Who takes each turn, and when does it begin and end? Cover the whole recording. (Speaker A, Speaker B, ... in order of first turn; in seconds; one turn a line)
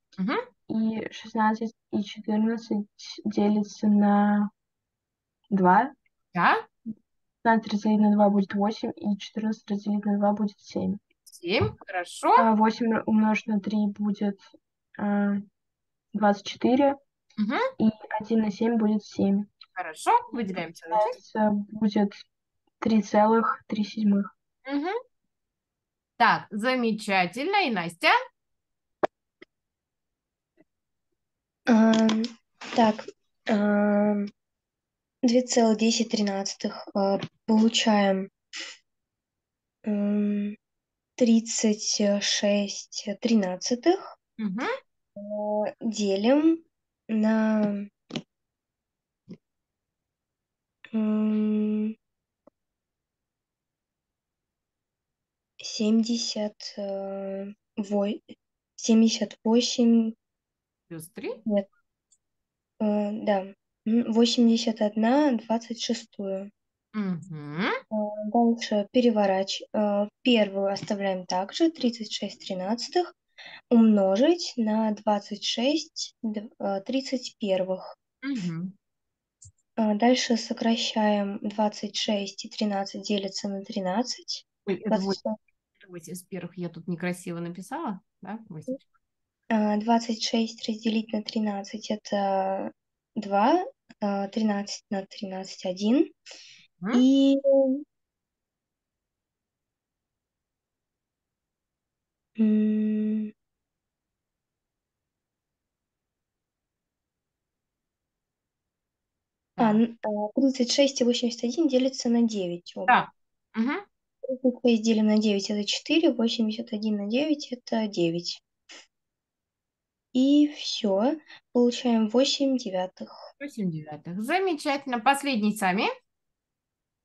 Speaker A: 0.2-0.4
Speaker B: 0.7-4.5
Speaker B: 5.5-5.9
Speaker A: 6.3-6.6
Speaker B: 7.4-11.0
Speaker A: 11.3-12.5
Speaker B: 12.4-15.4
Speaker B: 16.1-17.0
Speaker A: 17.4-17.6
Speaker B: 17.8-19.5
Speaker A: 19.8-21.2
Speaker B: 20.9-22.2
Speaker B: 22.8-24.3
Speaker A: 24.7-24.9
Speaker A: 26.2-28.1
Speaker C: 31.7-34.3
Speaker C: 35.2-38.3
Speaker C: 39.9-40.6
Speaker C: 41.2-44.0
Speaker A: 44.4-44.7
Speaker C: 45.2-47.9
Speaker C: 50.9-52.0
Speaker C: 55.6-58.3
Speaker C: 58.8-60.1
Speaker A: 60.9-61.4
Speaker C: 62.8-66.5
Speaker A: 66.9-67.8
Speaker C: 67.9-73.1
Speaker C: 73.7-77.9
Speaker A: 78.2-78.7
Speaker C: 79.8-85.4
Speaker A: 84.7-85.2
Speaker A: 85.8-88.8
Speaker C: 89.5-96.1
Speaker C: 96.9-97.8
Speaker C: 102.4-103.3
Speaker C: 109.6-113.0
Speaker A: 112.9-113.8
Speaker C: 114.3-118.4
Speaker C: 120.1-123.1
Speaker A: 123.4-125.9